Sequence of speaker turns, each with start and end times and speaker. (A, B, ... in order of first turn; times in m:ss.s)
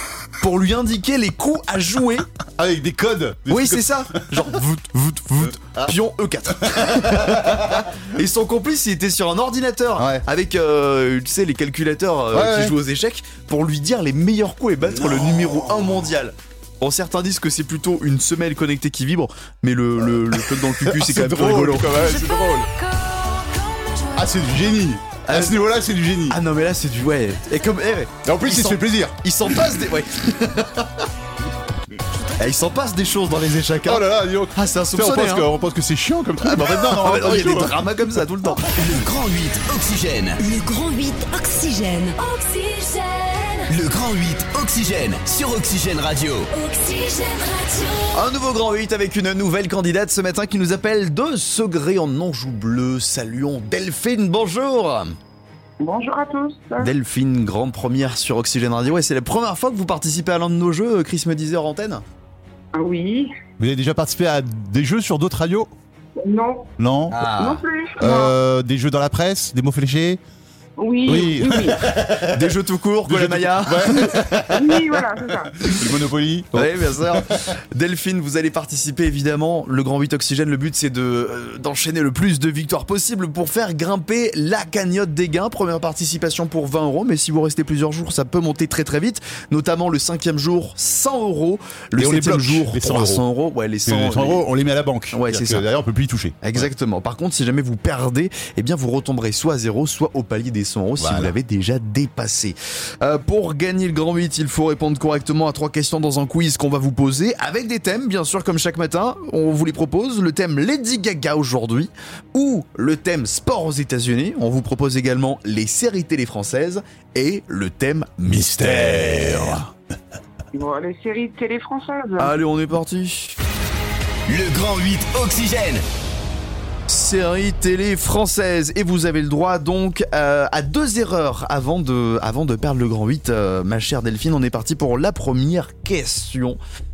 0:00.4-0:02.3 A
0:02.5-0:04.5 B
0:03.5-0:22.0 A
0:05.4-0:05.9 B
0:06.6-0:07.8 B
0:10.0-0:10.2 B
0:12.3-0:12.8 B
0:14.9-0:15.8 B
0:20.3-0:22.7 B
0:22.0-0:24.4 C
0:24.1-0:26.4 B
0:25.2-0:25.6 A
0:26.3-0:31.1 A
0:28.2-0:29.7 B
0:32.4-0:35.5 A
0:33.8-0:38.6 B
0:36.4-0:38.8 A
0:38.8-0:40.4 D
0:40.4-0:43.7 C
0:43.7-0:46.5 D
0:46.5-0:48.2 C
0:48.1-0:55.1 A
0:55.8-0:56.9 E
0:56.8-1:02.0 A
1:02.7-1:03.3 E
1:03.6-1:05.7 B
1:06.2-1:06.7 E
1:06.8-1:07.3 B
1:07.1-1:07.6 A
1:07.3-1:08.3 E
1:08.0-1:10.2 B
1:10.8-1:11.9 E
1:11.0-1:12.5 B
1:12.2-1:14.7 A
1:13.0-1:14.9 B
1:14.5-1:15.7 E
1:15.6-1:17.5 B
1:16.5-1:34.4 A
1:31.9-1:33.2 B
1:33.8-1:36.7 B
1:35.1-1:35.6 A
1:36.4-1:59.7 A
1:41.0-1:41.3 B
1:58.4-1:59.6 B
2:00.5-2:02.3 E
2:02.2-2:03.4 A
2:04.3-2:05.8 D
2:06.9-2:16.6 A